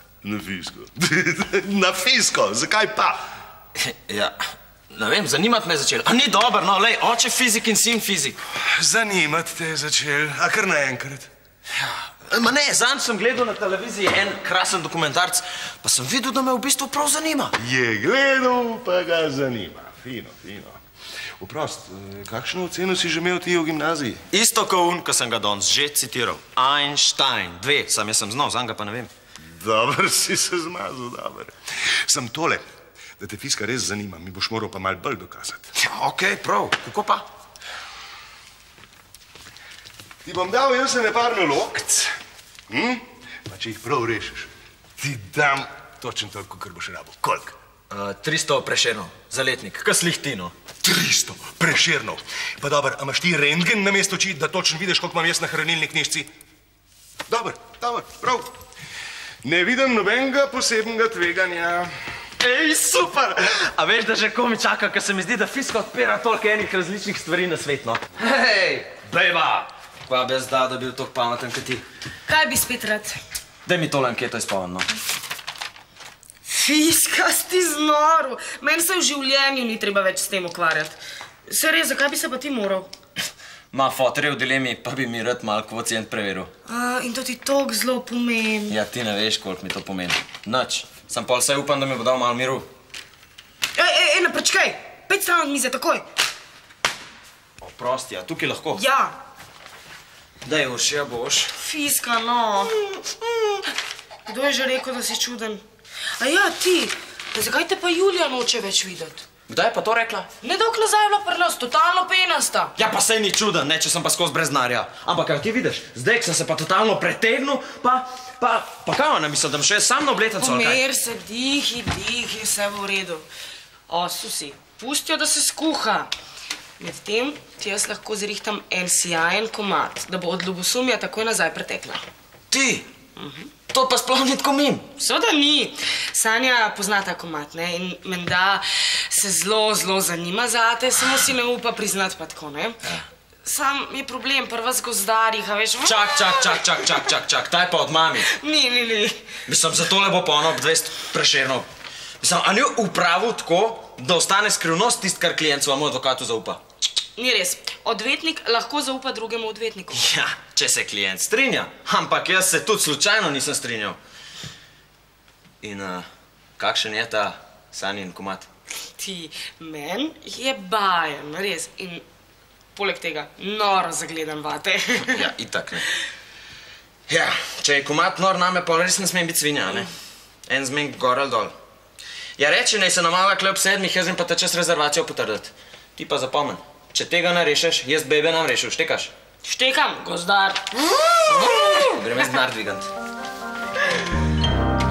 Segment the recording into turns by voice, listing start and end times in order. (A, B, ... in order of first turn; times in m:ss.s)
0:00.2-0:03.2 A
0:03.8-0:04.4 B
0:04.9-0:08.4 B
0:08.6-0:11.3 A
0:11.8-0:17.6 B
0:17.6-0:20.8 A
0:21.4-0:24.2 A
0:24.3-0:29.1 B
0:29.4-0:32.7 A
0:33.2-0:35.7 A
0:35.8-0:37.2 B
0:40.2-0:42.1 A
0:42.7-0:47.6 A
0:47.9-0:50.5 B
0:50.8-0:56.3 A
0:57.3-0:58.6 A
0:59.4-1:01.9 A
1:02.4-1:11.8 B
1:12.3-1:13.2 C
1:13.7-1:14.9 B
1:16.5-1:22.9 C
1:23.7-1:26.5 B
1:26.7-1:28.8 C
1:28.7-1:32.7 B
1:33.8-1:36.1 C
1:37.6-1:38.8 B
1:38.8-1:39.1 C
1:40.4-1:41.5 B
1:41.6-1:42.8 C
1:44.3-1:45.6 C
1:46.2-1:49.2 C
1:49.5-1:50.3 B
1:50.4-1:52.7 C
1:52.8-2:00.8 B
2:00.4-2:03.3 C
2:03.9-2:06.1 C
2:06.8-2:12.0 C
2:12.5-2:12.9 B
2:13.2-2:13.5 C
2:13.7-2:14.9 B
2:15.0-2:22.8 C
2:23.4-2:26.7 C
2:25.8-2:28.3 B
2:28.3-2:29.2 C
2:29.5-2:31.7 B
2:32.2-2:36.6 B
2:37.2-2:40.0 C
2:39.9-2:44.0 B
2:45.6-2:46.1 B
2:46.6-2:48.5 B
2:49.0-2:52.0 C
2:52.8-2:55.3 C
2:55.1-2:55.8 B
2:57.1-2:59.9 B
3:00.5-3:01.5 B
3:02.4-3:09.1 B
3:09.4-3:10.8 C
3:11.3-3:12.9 B